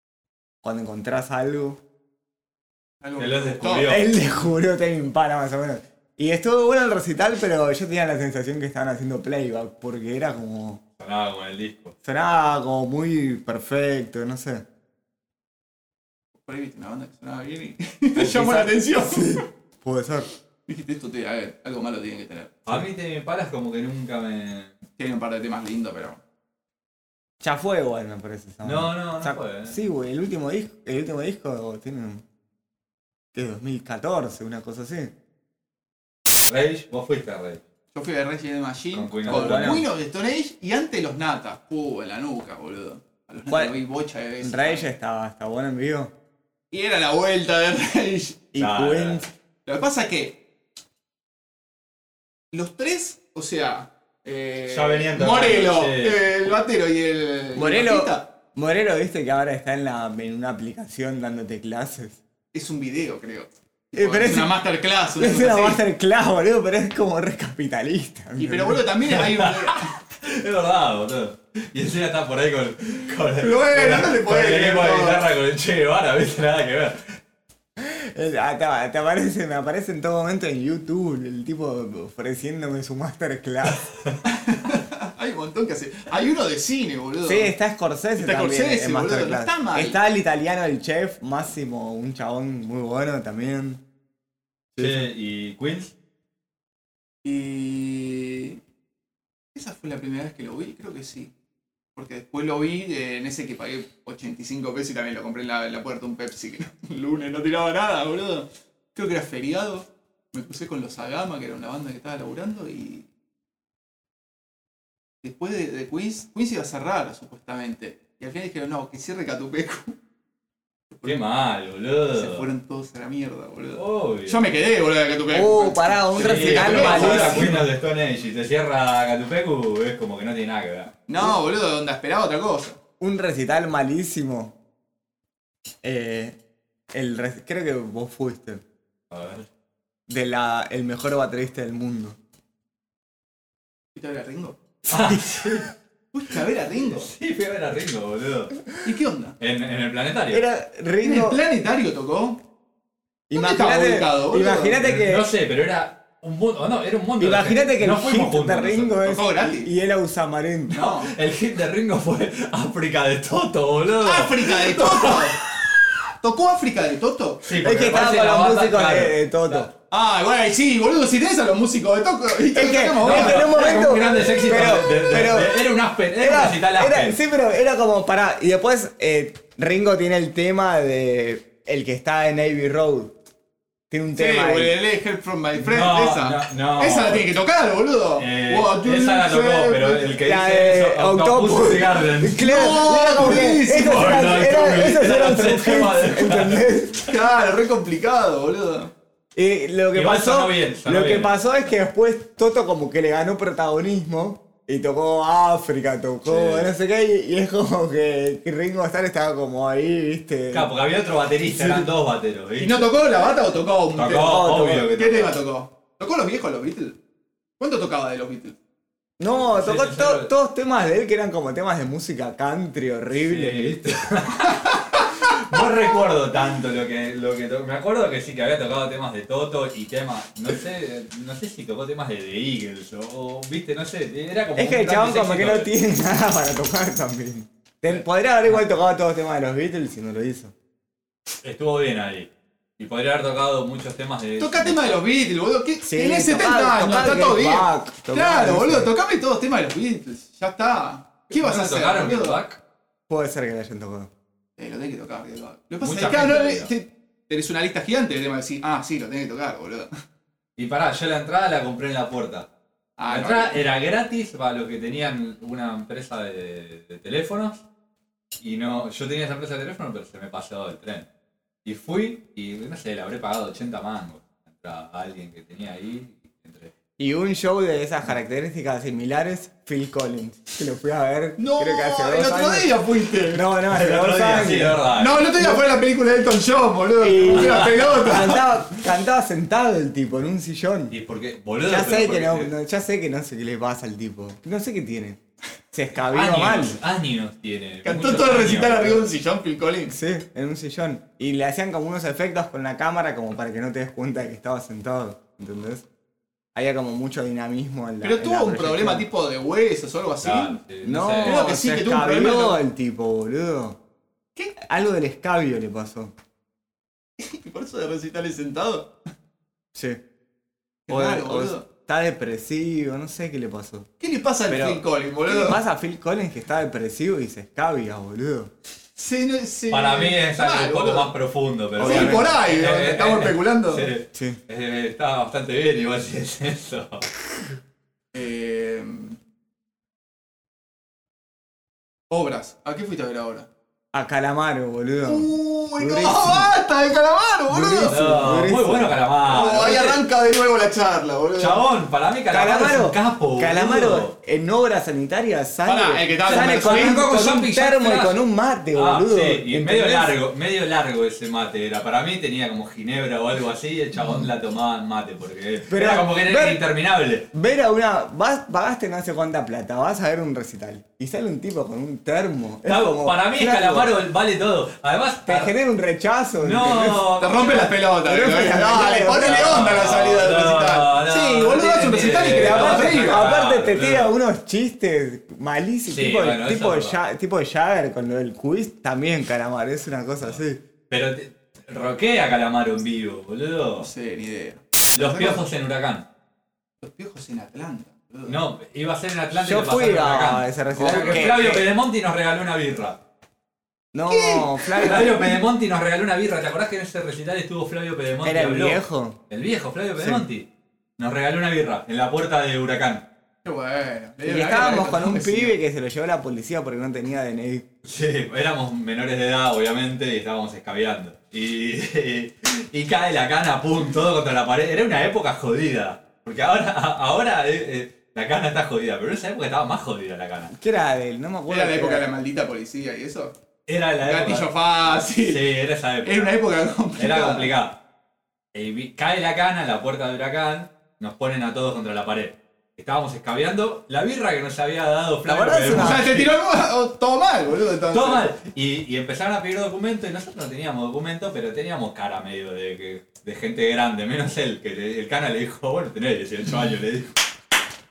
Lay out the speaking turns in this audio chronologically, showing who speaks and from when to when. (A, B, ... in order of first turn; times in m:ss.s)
0:00.6-0:01.8 A
0:03.0-0:04.1 B
0:03.2-0:04.2 C
0:03.9-0:10.8 A
0:11.0-0:11.9 C
0:12.0-0:14.7 A
0:16.3-0:19.5 B
0:18.2-0:20.3 A
0:20.7-0:22.6 B
0:22.7-0:24.8 C
0:25.0-0:26.2 B
0:27.4-0:32.2 A
0:28.6-0:29.8 C
0:33.3-0:35.1 A
0:36.5-0:37.6 C
0:37.9-0:44.9 B
0:38.9-0:39.8 C
0:39.3-0:39.8 A
0:44.4-0:46.1 A
0:46.7-0:48.4 B
0:48.5-0:49.3 A
0:48.6-0:49.3 C
0:49.7-0:50.4 B
0:52.5-0:58.3 B
0:54.7-0:56.2 C
0:57.6-1:02.2 A
1:02.5-1:05.8 B
1:03.9-1:04.6 A
1:05.2-1:08.9 A
1:08.4-1:09.9 B
1:09.1-1:17.2 C
1:13.4-1:15.3 B
1:17.8-1:23.8 A
1:24.3-1:27.5 B
1:27.2-1:33.8 A
1:28.2-1:30.0 B
1:34.8-1:35.9 C
1:37.2-1:38.6 B
1:39.5-1:41.3 B
1:42.0-1:53.1 B
1:55.2-2:00.0 B
2:00.9-2:01.2 B
2:01.0-2:02.5 C
2:02.1-2:07.7 B
2:03.7-2:04.5 C
2:05.3-2:07.6 A
2:06.2-2:11.0 C
2:11.1-2:12.8 B
2:13.0-2:14.6 A
2:15.8-2:16.4 A
2:16.9-2:18.6 A
2:19.1-2:19.5 C
2:20.1-2:22.2 A
2:24.0-2:24.6 B
2:24.9-2:25.7 A
2:24.9-2:25.7 C
2:26.1-2:27.1 B
2:27.0-2:28.6 C
2:28.8-2:29.4 B
2:29.4-2:30.4 C
2:30.3-2:31.4 A
2:31.0-2:32.4 B
2:33.3-2:35.3 A
2:33.3-2:34.8 B
2:34.8-2:39.1 C
2:37.2-2:40.8 A
2:39.0-2:39.7 B
2:40.7-2:41.1 B
2:40.8-2:45.8 C
2:44.0-2:45.4 B
2:46.2-2:47.6 B
2:47.4-2:49.7 C
2:47.6-2:49.7 A
2:49.9-2:54.8 B
2:52.5-2:55.7 A
2:53.0-2:57.2 C
2:56.2-3:03.2 A
3:03.9-3:04.8 A
3:04.2-3:10.1 B
3:05.5-3:07.3 C
3:08.2-3:16.8 C
3:10.2-3:17.1 A
3:12.4-3:14.6 B
3:17.1-3:18.9 B
3:19.4-3:30.7 A
3:19.9-3:21.7 C
3:26.3-3:26.7 C
3:30.5-3:33.2 C
3:31.5-3:31.9 A
3:32.6-3:37.0 B
3:33.9-3:35.4 C
3:34.2-3:34.9 A
3:37.6-3:38.6 B
3:39.2-3:44.0 A
3:39.3-3:40.3 C
3:43.3-3:55.7 C
3:44.4-3:45.6 B
3:54.6-4:00.5 A
3:57.9-3:58.6 C
4:01.4-4:05.0 C
4:04.4-4:12.4 B
4:05.9-4:08.9 A
4:11.3-4:12.6 C
4:13.1-4:14.1 A
4:14.6-4:19.9 B
4:15.8-4:16.7 C
4:20.6-4:22.5 C
4:23.0-4:23.6 B
4:23.1-4:27.6 C
4:28.4-4:31.1 C
4:31.6-4:36.7 C
4:37.0-4:45.6 A
4:41.4-4:43.5 B
4:43.7-4:45.3 C
4:44.9-4:48.6 B
4:47.0-4:51.0 A
4:47.2-4:48.0 C
4:50.9-4:52.5 C
4:51.7-4:55.2 A
4:55.7-4:56.8 A
4:56.1-4:59.1 C
4:57.8-4:59.9 B
4:59.9-5:05.8 A
5:06.6-5:09.1 A
5:08.0-5:10.6 B
5:10.2-5:11.4 C
5:10.8-5:13.8 A
5:11.2-5:12.6 B
5:14.6-5:16.1 A
5:17.2-5:18.9 B
5:19.8-5:20.0 A
5:20.9-5:21.7 B
5:20.9-5:23.9 A
5:24.0-5:25.6 B
5:24.5-5:28.5 A
5:29.0-5:31.1 B
5:29.7-5:37.1 C
5:31.8-5:33.9 B
5:31.8-5:32.3 A
5:34.1-5:34.4 A
5:38.1-5:39.2 B
5:42.1-5:43.5 B
5:43.9-5:46.5 A
5:45.1-5:48.1 B
5:47.5-5:49.0 A
5:47.9-5:50.0 C
5:49.2-5:51.6 B
5:51.4-5:54.1 C
5:52.3-6:00.2 A
5:55.6-5:57.2 B
5:56.2-6:07.3 C
6:05.7-6:06.6 A
6:07.3-6:14.0 A
6:12.7-6:15.5 C
6:15.3-6:17.1 A
6:16.4-6:17.8 C
6:17.2-6:23.3 B
6:18.0-6:19.7 A
6:19.2-6:24.2 C
6:22.4-6:30.6 A
6:25.9-6:27.0 C
6:30.2-6:33.9 C
6:33.8-6:35.4 B
6:35.0-6:36.1 C
6:36.8-6:38.4 B
6:38.3-6:43.0 C
6:39.4-6:41.7 A
6:40.8-6:41.5 B
6:43.9-6:45.2 A
6:44.1-6:45.3 B
6:44.8-6:50.5 C
6:48.2-6:49.2 A
6:50.0-6:50.2 A
6:51.0-6:53.1 C
6:53.4-6:55.6 B
6:54.2-6:57.7 A
6:57.8-7:10.5 C
7:10.5-7:12.0 A
7:11.5-7:13.3 B
7:13.7-7:17.8 C
7:14.0-7:15.5 B
7:16.0-7:17.5 B
7:18.5-7:26.3 C
7:25.3-7:26.2 A
7:25.7-7:28.3 B
7:27.9-7:37.1 C